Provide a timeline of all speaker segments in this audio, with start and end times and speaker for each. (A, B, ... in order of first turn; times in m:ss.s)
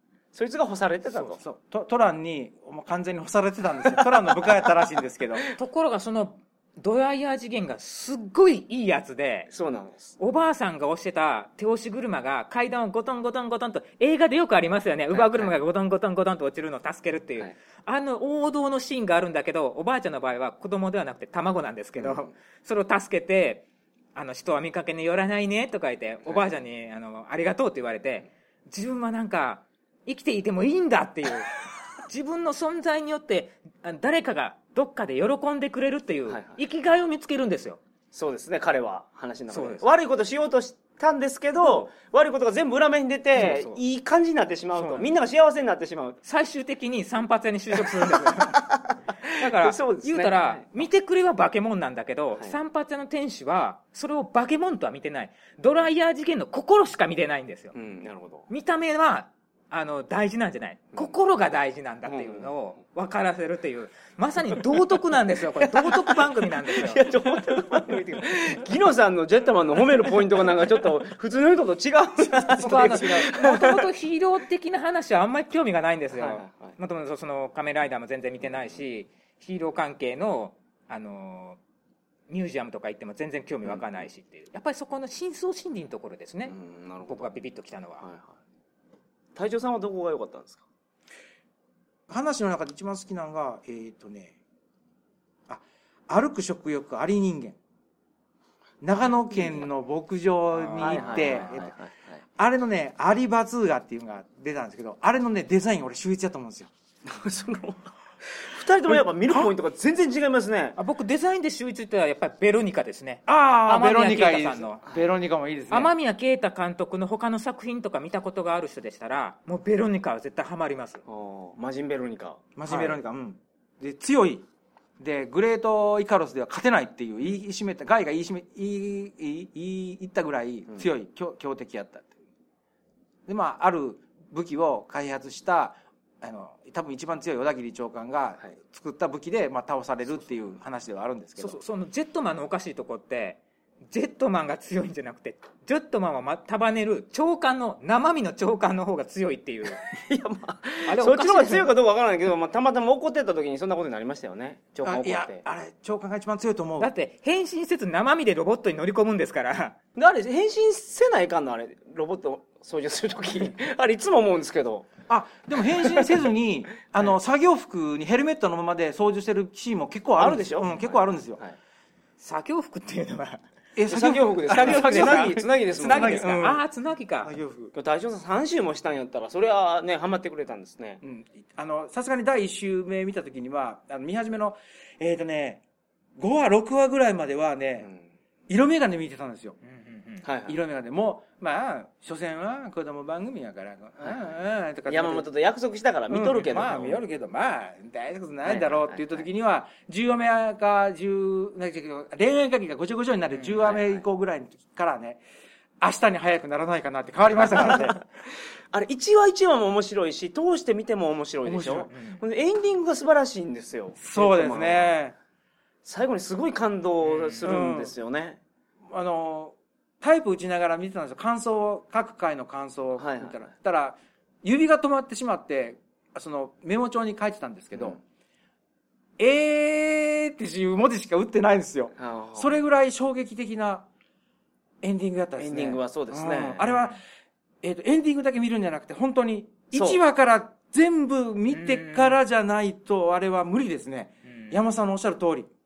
0:00.3-0:01.4 A
0:01.4-0:05.4 B
0:05.5-0:09.5 C
0:09.5-0:10.1 A
0:10.2-0:37.8 C
0:15.1-0:15.5 A
0:22.0-0:22.3 A
0:36.3-0:36.6 A
0:38.1-0:46.2 A
0:39.5-0:39.8 C
0:41.6-0:41.9 C
0:43.4-0:43.8 C
0:44.8-0:45.1 C
0:46.2-0:48.7 C
0:47.8-0:50.6 A
0:49.3-0:57.7 C
0:57.7-0:58.4 A
0:58.5-1:07.0 C
1:02.0-1:02.5 A
1:05.6-1:13.8 A
1:12.4-1:21.6 C
1:12.6-1:13.3 B
1:16.1-1:16.7 A
1:22.3-1:26.5 C
1:23.6-1:24.0 A
1:26.5-1:27.4 A
1:27.1-1:28.0 C
1:28.0-1:28.4 A
1:29.3-1:30.6 A
1:32.1-1:34.3 B
1:35.5-1:37.6 B
1:38.8-1:41.7 B
1:39.3-1:39.6 A
1:40.5-1:41.6 C
1:40.8-1:42.2 A
1:42.4-1:46.7 B
1:47.0-1:50.8 A
1:48.9-1:49.5 B
1:50.8-1:54.8 C
1:53.3-1:55.9 B
1:55.7-2:01.0 C
2:01.0-2:02.4 A
2:02.6-2:04.4 B
2:02.7-2:02.9 C
2:05.0-2:12.1 B
2:13.3-2:21.6 B
2:21.4-2:29.8 C
2:29.9-2:35.4 A
2:30.9-2:31.7 C
2:34.8-2:36.9 B
2:36.8-2:39.8 C
2:39.9-2:44.9 A
2:45.1-2:51.4 B
2:50.2-2:51.6 A
2:52.2-2:53.4 C
2:53.8-2:56.6 B
2:53.9-2:56.4 A
2:54.5-2:57.3 C
2:57.2-2:57.7 B
2:57.7-3:01.0 A
3:01.0-3:05.6 B
3:06.2-3:07.9 B
3:07.8-3:08.1 A
3:08.5-3:09.6 B
3:09.6-3:10.2 C
3:10.2-3:10.6 A
3:10.5-3:15.2 B
3:14.9-3:17.0 A
3:16.1-3:25.2 B
3:18.4-3:19.2 A
3:23.6-3:24.0 A
3:25.8-3:28.0 B
3:28.7-3:34.9 A
3:31.4-3:31.9 B
3:31.9-3:32.2 C
3:34.0-3:35.2 B
3:35.8-3:38.4 A
3:37.0-3:37.4 C
3:37.4-3:37.9 B
3:38.9-3:48.0 B
3:43.0-3:43.4 A
3:47.7-3:48.0 A
3:49.2-3:53.8 B
3:52.0-3:52.6 A
3:54.8-3:57.0 B
3:55.4-3:56.6 A
3:56.6-3:56.9 C
3:57.6-4:05.5 B
3:59.7-4:00.0 A
4:01.5-4:02.2 C
4:04.2-4:04.6 C